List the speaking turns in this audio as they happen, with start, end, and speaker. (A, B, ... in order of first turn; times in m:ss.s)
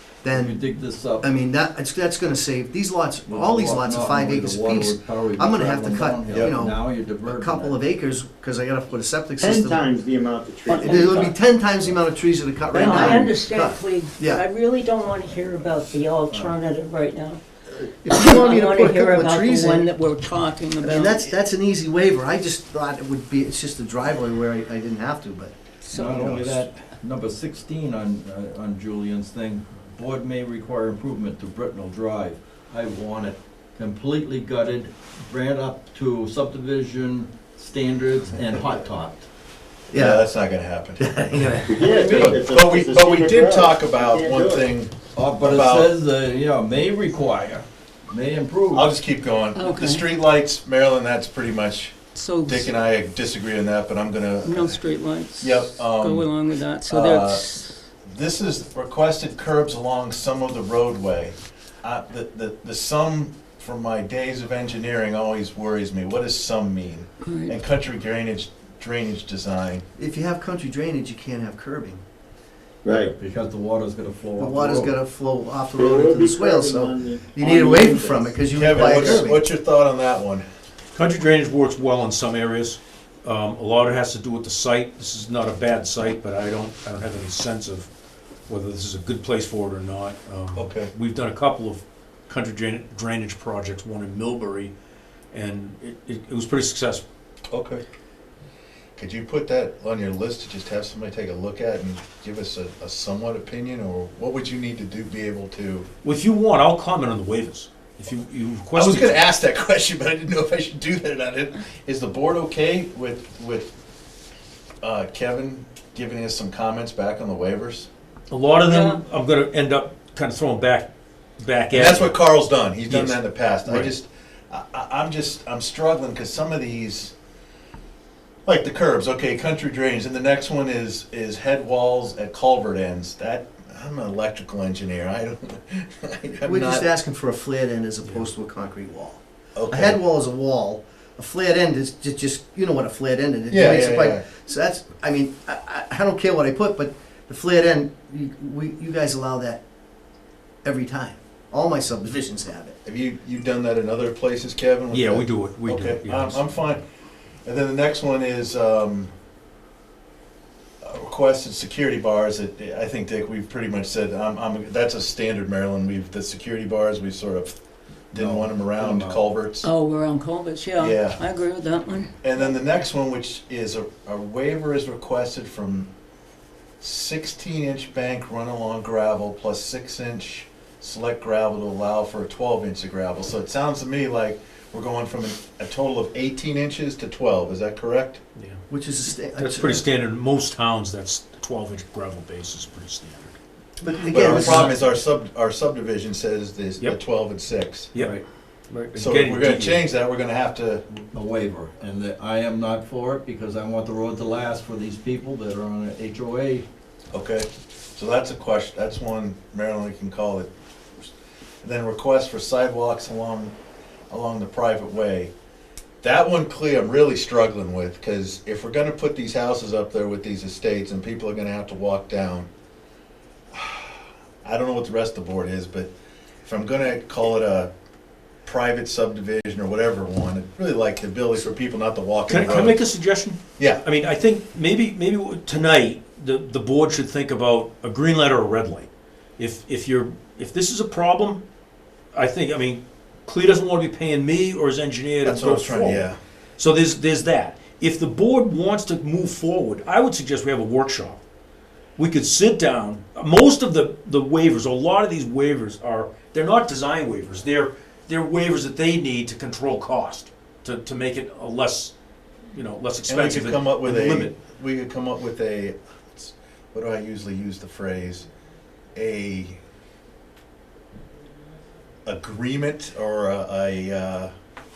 0:00.2-0:00.6 A
0:00.3-0:01.3 B
0:01.2-0:09.9 A
0:03.2-0:07.8 B
0:09.4-0:11.4 C
0:10.7-0:14.4 A
0:12.7-0:13.4 C
0:12.8-0:17.4 D
0:17.8-0:19.9 A
0:18.1-0:21.3 D
0:20.8-0:25.5 A
0:25.8-0:26.4 D
0:25.9-0:39.2 B
0:26.2-0:26.5 A
0:39.9-0:40.3 A
0:39.9-0:41.1 E
0:41.0-0:42.2 A
0:41.7-0:44.7 C
0:42.0-0:45.9 E
0:42.0-0:42.3 B
0:45.1-0:48.9 B
0:48.7-0:51.9 E
0:49.5-0:50.0 D
0:52.1-0:52.7 D
0:52.4-0:54.8 E
0:54.4-0:57.8 D
0:55.4-0:56.3 E
0:56.9-0:57.5 E
0:58.1-1:09.8 E
1:07.2-1:07.6 D
1:10.0-1:12.0 A
1:12.8-1:13.1 C
1:12.9-1:15.0 B
1:14.4-1:19.4 A
1:15.7-1:19.2 C
1:18.5-1:20.4 E
1:20.9-1:27.9 F
1:28.5-1:34.7 F
1:30.5-1:30.9 E
1:35.3-1:37.0 F
1:37.5-1:37.8 E
1:39.0-1:45.9 E
1:46.0-1:49.2 F
1:48.7-1:53.7 E
1:54.8-1:57.9 E
1:58.3-2:02.2 F
1:58.7-1:59.0 D
2:01.7-2:07.1 E
2:02.8-2:03.9 F
2:08.4-2:16.9 E
2:16.4-2:29.6 A
2:19.5-2:20.0 E
2:23.5-2:24.3 E
2:30.6-2:32.8 A
2:32.8-2:36.8 E
2:34.9-2:36.7 F
2:37.4-2:39.1 E
2:40.8-2:47.5 E
2:48.1-2:49.7 E
2:48.2-2:49.2 B
2:49.6-2:52.1 D
2:50.8-2:51.2 E
2:52.2-2:55.9 E
2:56.8-3:08.2 E
3:08.7-3:09.8 A
3:09.3-3:13.4 F
3:13.8-3:14.7 A
3:14.1-3:17.9 E
3:14.2-3:14.7 B
3:18.0-3:18.2 B
3:18.7-3:19.8 F
3:19.0-3:20.8 E
3:20.9-3:26.6 B
3:27.1-3:31.1 E
3:31.6-3:33.5 E
3:34.1-3:35.3 E
3:36.0-3:42.5 E
3:43.5-3:45.9 E
3:46.4-3:47.7 E
3:48.4-3:52.8 E
3:52.3-4:01.4 F
3:53.6-3:53.8 E
4:02.1-4:06.1 F
4:05.2-4:06.2 E
4:06.6-4:11.2 F
4:12.0-4:21.9 F
4:22.5-4:24.3 F
4:23.0-4:28.2 E
4:28.9-4:29.6 E
4:32.0-4:34.3 E